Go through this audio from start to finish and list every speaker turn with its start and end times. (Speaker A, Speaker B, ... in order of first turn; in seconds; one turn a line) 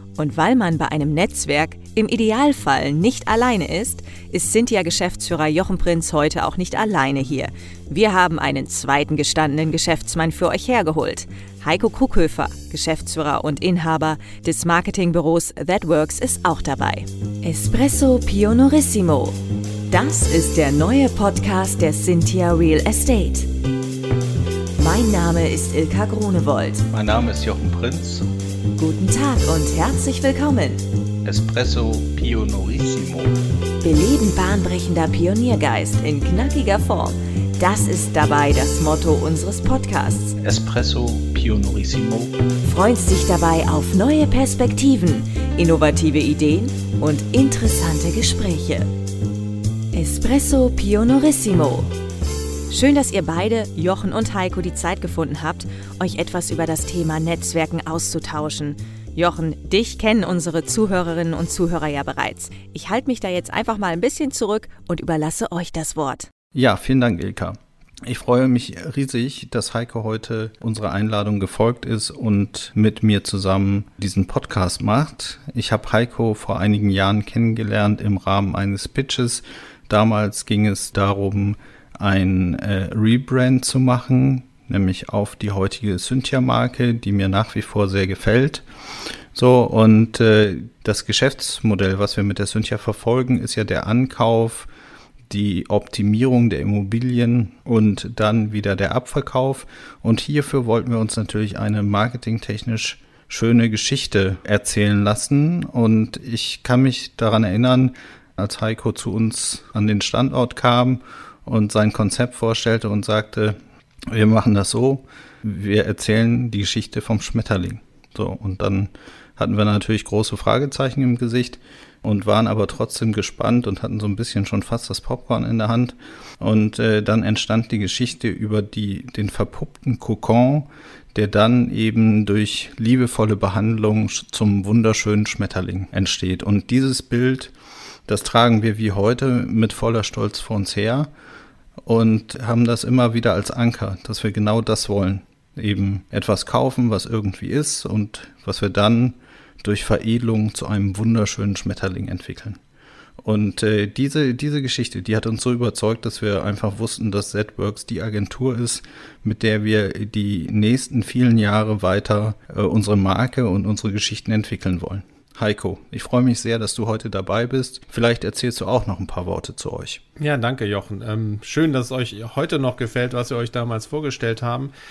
Speaker A: 0.2-19.4
Speaker A: 19.9-23.5
Speaker A: 24.8-26.9
Speaker B: 26.9-28.3
Speaker A: 28.8-30.8
Speaker B: 31.2-33.4
Speaker A: 33.8-40.4
Speaker B: 40.4-42.3
Speaker A: 42.6-48.9
Speaker A: 49.9-51.9
Speaker A: 52.7-66.3
Speaker B: 66.5-88.6
Speaker B: 89.3-94.7
Speaker B: 95.3-113.6
Speaker B: 114.1-137.5
Speaker B: 138.1-141.1
Speaker B: 141.8-152.6
Speaker B: 153.2-170.0
Speaker C: 170.2-174.7